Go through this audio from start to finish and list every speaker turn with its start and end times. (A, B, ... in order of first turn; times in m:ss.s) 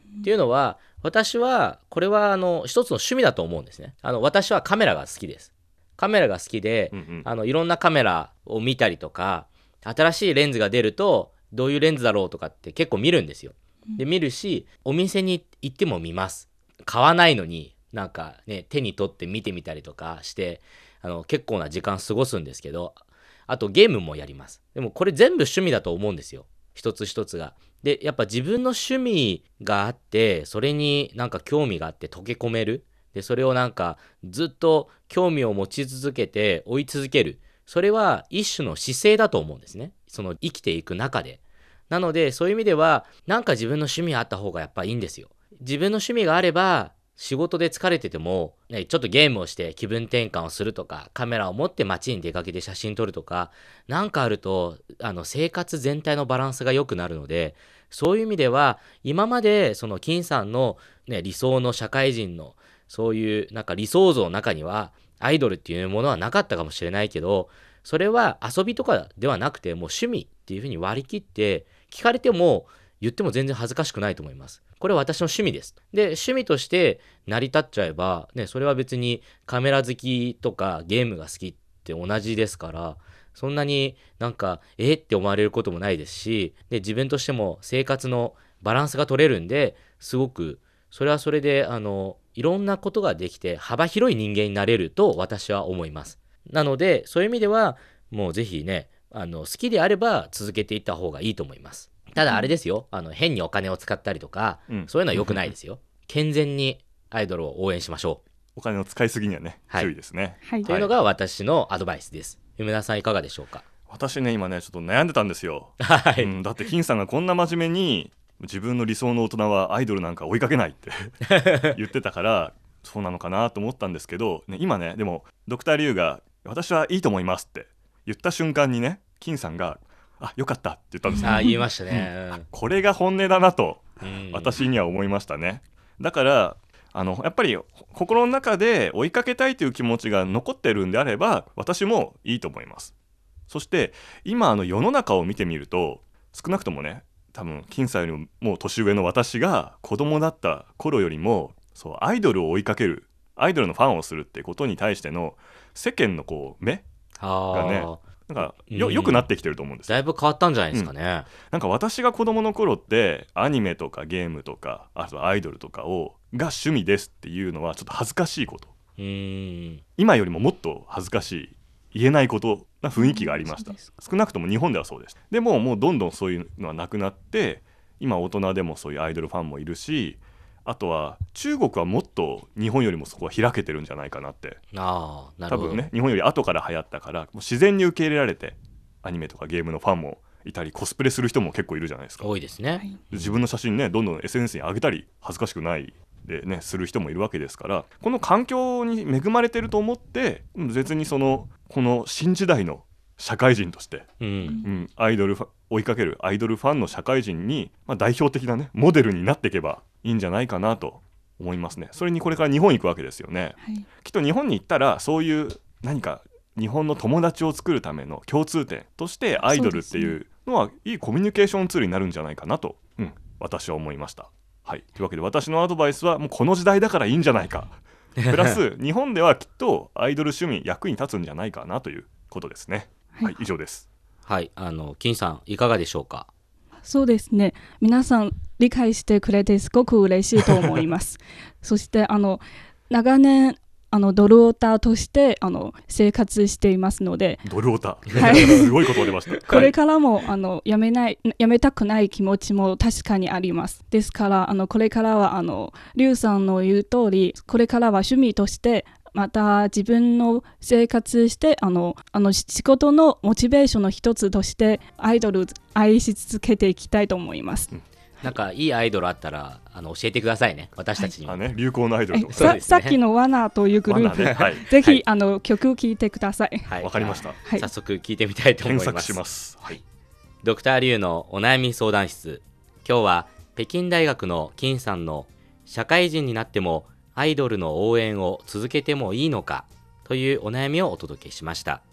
0:00.2-1:48.2 A
0:06.9-0:07.3 B
1:42.2-1:42.5 C
1:44.7-1:45.5 B
1:48.6-1:50.9 B
1:50.4-1:50.7 C
1:50.6-1:53.6 A
1:53.9-2:22.9 B
1:55.8-1:56.3 A
2:11.2-2:12.4 A
2:14.0-2:14.6 A
2:23.5-2:36.8 B
2:37.2-2:39.3 A
2:37.5-2:40.0 B
2:39.8-2:41.3 A
2:40.7-2:48.7 B
2:49.0-2:49.8 A
2:50.0-3:04.6 B
2:52.9-2:54.0 C
3:04.7-3:05.8 A
3:05.5-3:12.3 B
3:12.2-3:13.4 A
3:13.1-3:53.9 B
3:24.2-3:24.6 A
3:24.4-3:24.7 C
3:33.6-3:33.9 C
3:39.4-3:40.2 C
3:53.1-3:53.4 C
3:54.2-3:56.3 A
3:56.8-4:07.4 C
4:07.4-4:09.7 B
4:08.1-4:28.3 C
4:08.3-4:08.6 A
4:28.2-4:31.5 A
4:31.2-4:32.6 B
4:32.1-4:36.7 C
4:32.3-4:33.0 A
4:33.8-4:34.7 B
4:34.7-4:35.0 A
4:36.6-4:39.8 A
4:36.8-4:37.4 B
4:37.3-4:37.7 C
4:38.6-4:39.8 B
4:40.4-4:51.8 A